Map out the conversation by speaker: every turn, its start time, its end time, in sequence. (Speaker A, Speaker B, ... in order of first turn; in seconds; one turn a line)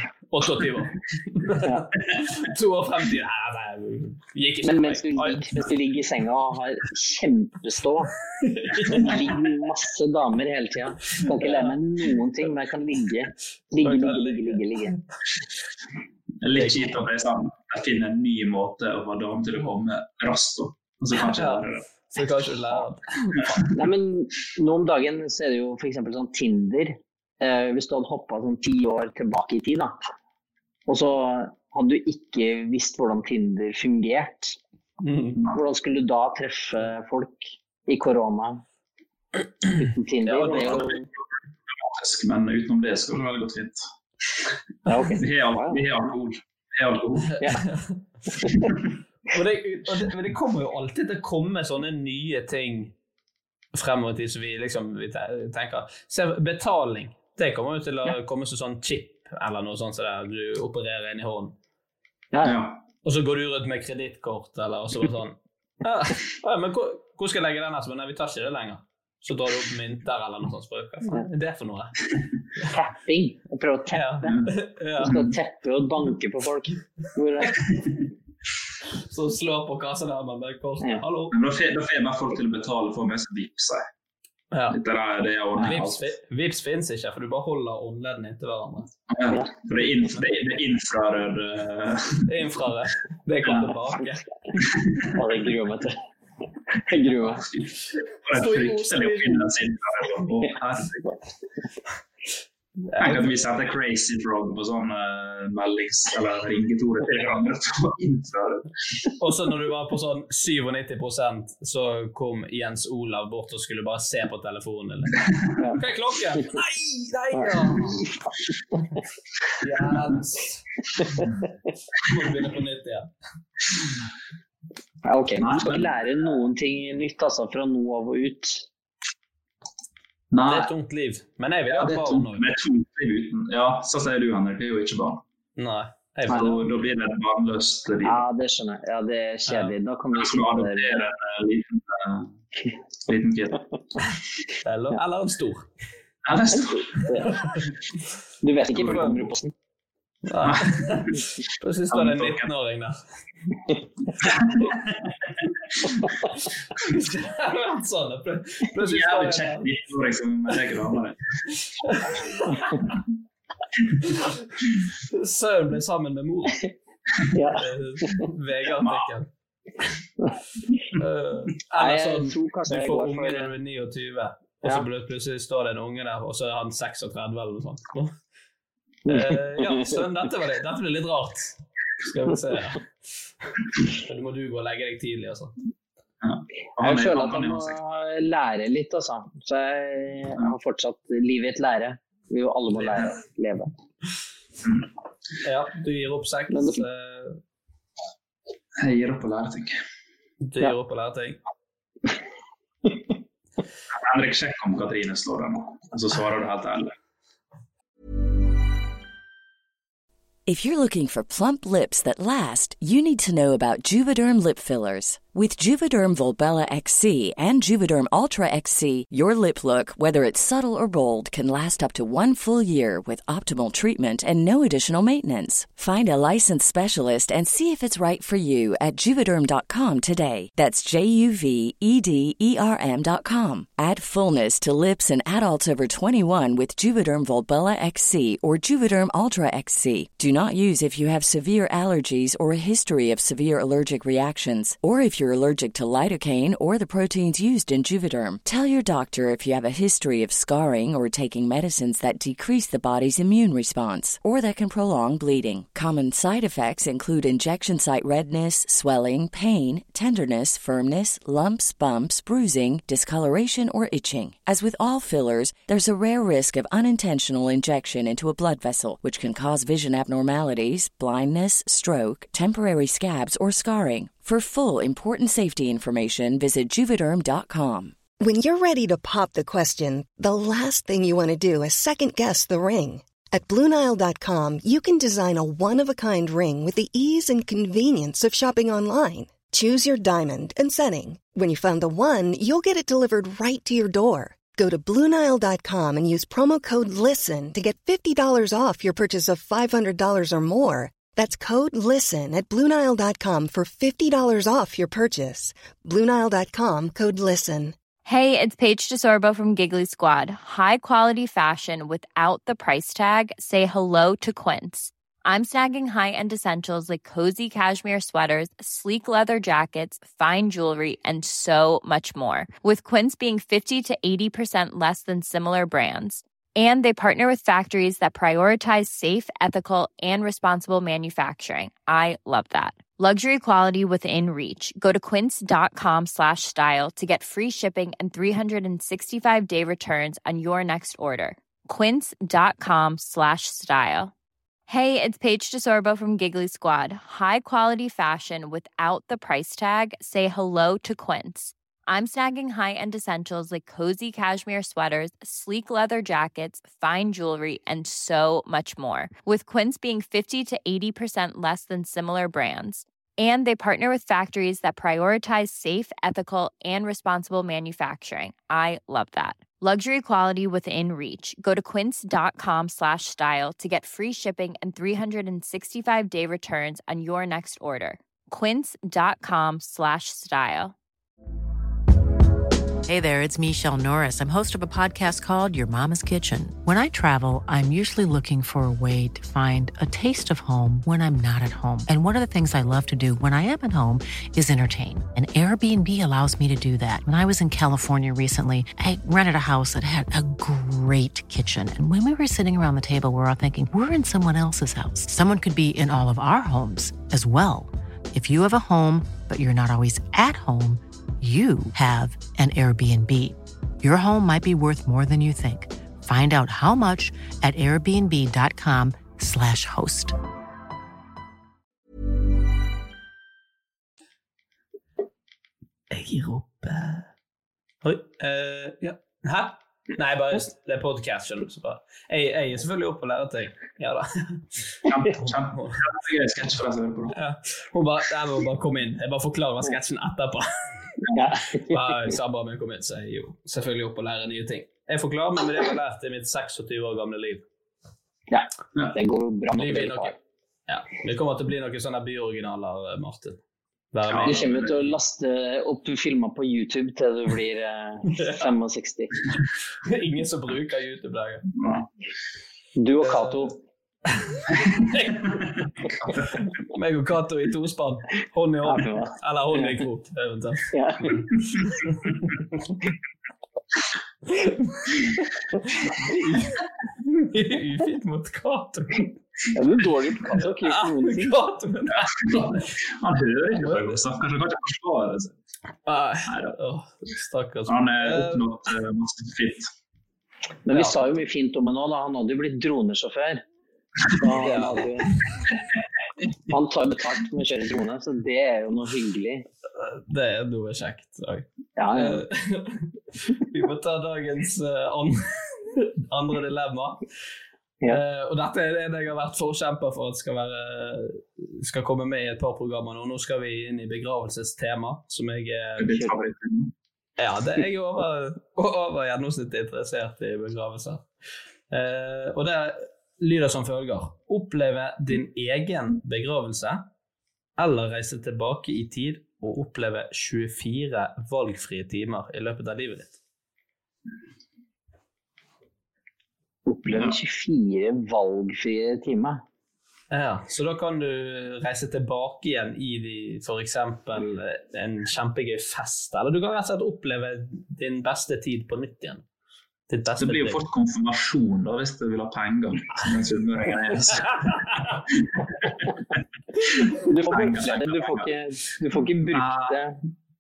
Speaker A: 0.3-5.6
Speaker B: 4.6-8.1
Speaker A: 8.4-9.4
Speaker B: 8.9-14.9
Speaker A: 11.4-11.7
Speaker A: 13.8-15.0
Speaker C: 16.4-21.9
Speaker A: 16.5-17.1
Speaker A: 21.2-23.7
Speaker B: 23.7-29.9
Speaker B: 30.9-34.6
Speaker A: 35.0-35.4
Speaker C: 35.3-35.6
Speaker B: 35.5-38.6
Speaker B: 39.8-41.0
Speaker A: 40.3-40.9
Speaker C: 40.5-40.9
Speaker C: 41.7-43.8
Speaker B: 44.9-45.8
Speaker C: 45.2-47.4
Speaker A: 47.4-48.0
Speaker A: 49.3-52.9
Speaker A: 53.8-61.6
Speaker C: 62.4-62.8
Speaker A: 63.0-71.9
Speaker B: 72.6-74.3
Speaker A: 73.9-75.3
Speaker C: 74.2-75.3
Speaker B: 75.0-77.6
Speaker A: 79.0-81.3
Speaker C: 81.3-83.8
Speaker A: 84.5-84.8
Speaker C: 84.7-86.0
Speaker A: 85.6-88.9
Speaker C: 89.1-92.3
Speaker A: 92.3-94.2
Speaker C: 93.4-93.7
Speaker C: 94.6-95.1
Speaker B: 95.1-96.0
Speaker B: 96.7-97.4
Speaker C: 97.3-101.2
Speaker A: 98.3-99.5
Speaker A: 102.9-103.4
Speaker C: 103.0-108.7
Speaker A: 109.2-115.2
Speaker A: 115.8-118.0
Speaker B: 117.3-118.1
Speaker A: 119.6-120.6
Speaker A: 122.0-123.1
Speaker B: 125.0-128.7
Speaker C: 125.4-126.0
Speaker C: 130.3-130.7
Speaker A: 130.4-132.5
Speaker C: 131.7-135.2
Speaker A: 135.6-136.9
Speaker C: 136.3-138.2
Speaker B: 138.1-141.1
Speaker A: 139.5-139.7
Speaker C: 140.1-142.3
Speaker C: 143.1-143.6
Speaker A: 144.6-145.7
Speaker C: 146.2-147.1
Speaker B: 146.5-147.3
Speaker B: 148.4-149.5
Speaker A: 148.7-149.3
Speaker A: 150.2-153.0
Speaker C: 150.4-151.2
Speaker C: 151.9-152.5
Speaker C: 154.2-155.2
Speaker A: 156.8-159.7
Speaker C: 158.8-161.3
Speaker A: 161.8-162.8
Speaker A: 165.1-166.7
Speaker B: 167.3-168.2
Speaker A: 167.6-169.3
Speaker C: 168.8-169.1
Speaker A: 171.0-178.2
Speaker B: 171.8-173.5
Speaker B: 179.1-179.9
Speaker A: 179.1-182.9
Speaker A: 184.0-185.5
Speaker C: 186.2-187.8
Speaker B: 186.8-193.7
Speaker A: 195.4-197.4
Speaker B: 196.5-196.8
Speaker C: 198.8-199.8
Speaker A: 200.4-201.4
Speaker C: 204.0-206.9
Speaker D: 210.5-278.0
Speaker E: 278.2-307.8
Speaker F: 308.1-344.1
Speaker F: 344.7-380.8
Speaker G: 382.9-420.1
Speaker A: 425.9-427.1
Speaker A: 427.8-434.6
Speaker C: 434.9-437.1
Speaker A: 435.2-435.8
Speaker A: 437.1-441.0
Speaker B: 441.1-441.9
Speaker A: 441.6-447.4
Speaker B: 448.3-450.1
Speaker A: 449.6-450.2
Speaker A: 450.7-453.4
Speaker A: 453.9-454.8
Speaker C: 454.1-454.9
Speaker B: 454.2-459.2
Speaker A: 459.9-461.5
Speaker C: 461.6-461.9
Speaker B: 462.8-463.6
Speaker A: 463.0-463.5
Speaker A: 464.1-465.1
Speaker C: 465.9-466.4
Speaker A: 466.6-470.8
Speaker B: 468.6-469.8
Speaker B: 470.7-471.2
Speaker A: 476.1-476.5
Speaker A: 477.1-479.1
Speaker B: 479.5-481.4
Speaker A: 480.6-482.6
Speaker C: 481.9-485.4
Speaker A: 483.6-484.0
Speaker A: 485.9-488.4
Speaker C: 486.3-486.6
Speaker C: 487.7-489.7
Speaker B: 490.7-493.4
Speaker A: 490.7-491.0
Speaker B: 494.2-495.1
Speaker A: 494.3-494.9
Speaker B: 496.5-499.5
Speaker A: 499.8-507.0
Speaker B: 501.8-502.2
Speaker A: 507.9-515.9
Speaker C: 515.8-516.7
Speaker A: 517.2-521.1
Speaker A: 521.7-526.9
Speaker A: 527.6-533.2
Speaker B: 536.7-539.4
Speaker A: 540.1-549.2
Speaker A: 549.9-550.6
Speaker C: 550.2-556.0
Speaker C: 556.8-558.3
Speaker B: 557.0-560.0
Speaker C: 559.3-559.8